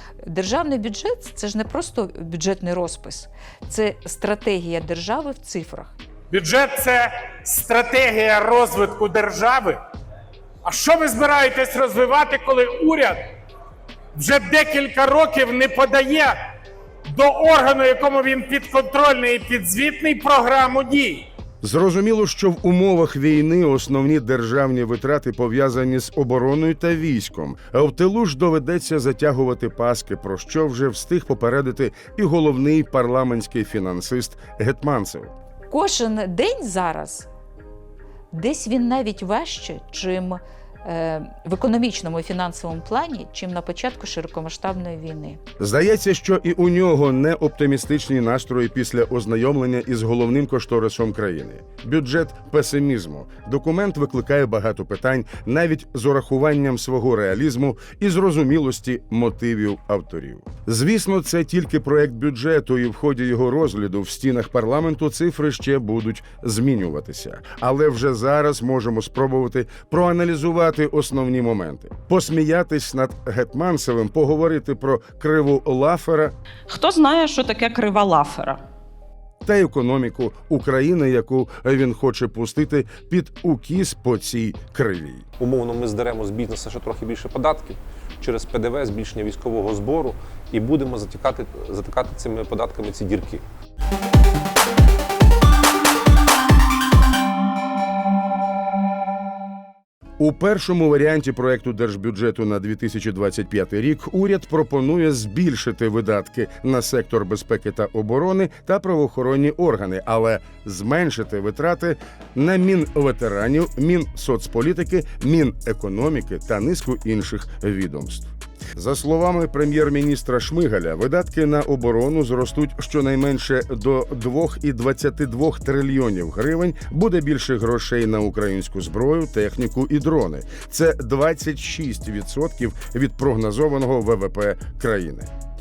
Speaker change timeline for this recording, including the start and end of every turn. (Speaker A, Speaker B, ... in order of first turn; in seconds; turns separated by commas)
Speaker A: 0.2-6.0, Speaker B: 6.3-9.8, Speaker B: 10.6-13.2, Speaker B: 14.1-16.4, Speaker B: 17.1-21.2, Speaker C: 21.6-35.3, Speaker A: 35.7-37.3, Speaker A: 38.3-45.4, Speaker C: 45.6-76.3, Speaker D: 76.7-78.6, Speaker C: 79.4-85.2, Speaker E: 85.4-93.4, Speaker C: 100.2-135.3